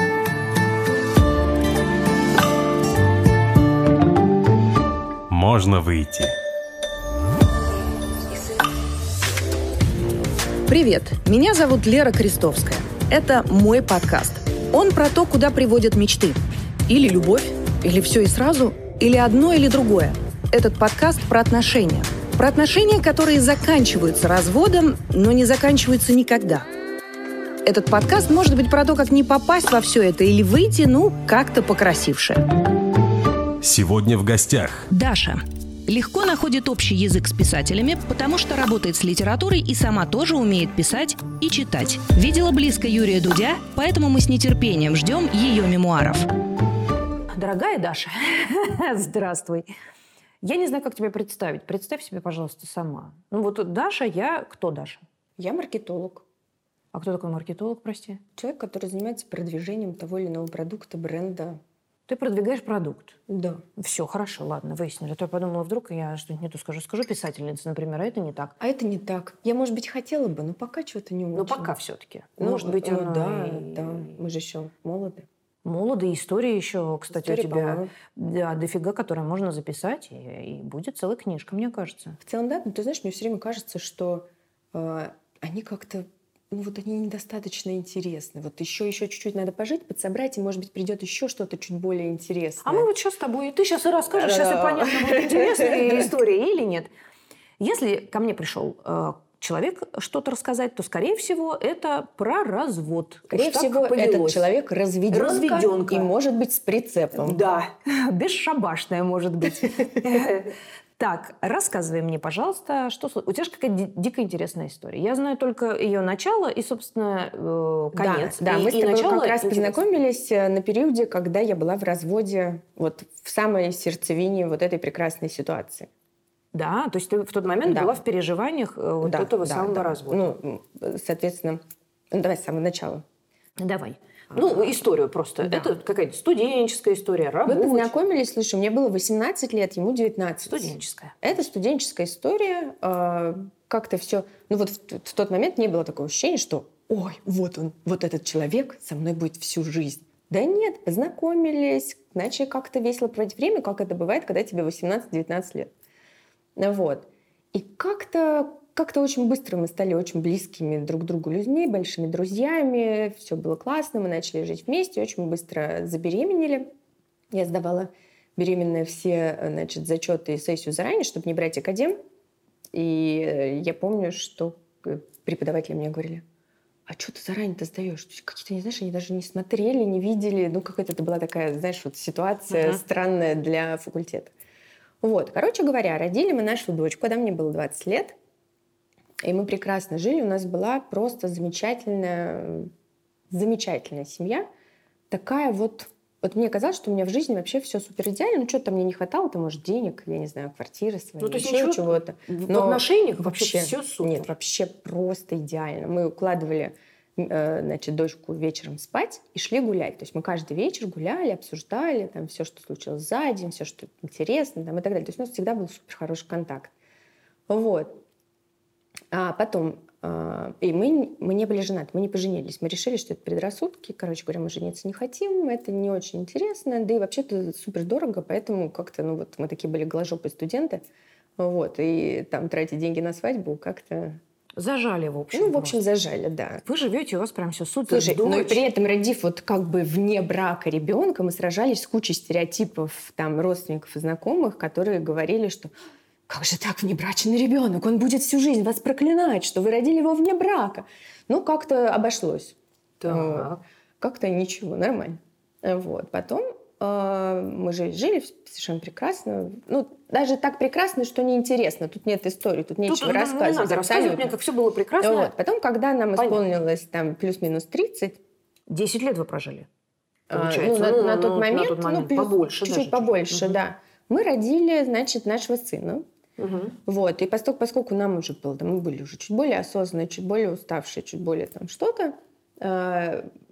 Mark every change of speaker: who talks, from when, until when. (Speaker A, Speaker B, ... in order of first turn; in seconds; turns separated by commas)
Speaker A: 5.3-6.3, Speaker B: 10.7-26.7, Speaker B: 27.6-32.4, Speaker A: 33.6-34.9, Speaker B: 34.9-46.3, Speaker C: 47.3-49.7, Speaker C: 50.4-55.0, Speaker D: 55.4-56.2, Speaker C: 56.9-58.2, Speaker D: 58.4-61.6, Speaker C: 62.1-63.2, Speaker D: 63.3-63.6, Speaker C: 63.8-68.5, Speaker D: 68.6-71.7, Speaker C: 71.3-74.1, Speaker D: 72.4-75.2, Speaker C: 75.6-82.2, Speaker D: 77.1-77.9, Speaker D: 82.2-92.9, Speaker C: 92.6-96.9, Speaker D: 94.1-96.1, Speaker C: 97.6-104.5, Speaker D: 103.3-107.4, Speaker C: 105.1-106.1, Speaker C: 107.2-119.8, Speaker D: 117.9-125.9, Speaker C: 126.5-130.3, Speaker D: 127.7-128.0, Speaker D: 129.0-133.0, Speaker C: 133.6-137.9, Speaker D: 134.3-134.7, Speaker D: 135.4-135.8, Speaker D: 137.4-155.7, Speaker C: 140.5-141.4, Speaker D: 156.6-166.7, Speaker D: 167.3-172.0, Speaker D: 172.7-176.2, Speaker D: 176.9-184.3, Speaker C: 182.5-182.8, Speaker D: 185.0-188.2, Speaker D: 189.2-192.7, Speaker D: 193.3-194.5, Speaker D: 195.1-216.7, Speaker C: 201.2-204.3, Speaker D: 217.5-218.0, Speaker D: 219.1-230.8, Speaker D: 231.4-234.2, Speaker C: 234.6-235.8, Speaker D: 235.3-236.6, Speaker C: 236.6-238.6, Speaker D: 237.9-245.7, Speaker D: 246.3-264.4, Speaker C: 253.0-253.6, Speaker C: 262.9-265.3, Speaker D: 265.0-268.2, Speaker C: 266.1-266.4, Speaker C: 268.7-269.7, Speaker D: 270.3-276.0, Speaker C: 270.3-273.6, Speaker C: 276.4-276.8, Speaker D: 276.9-283.3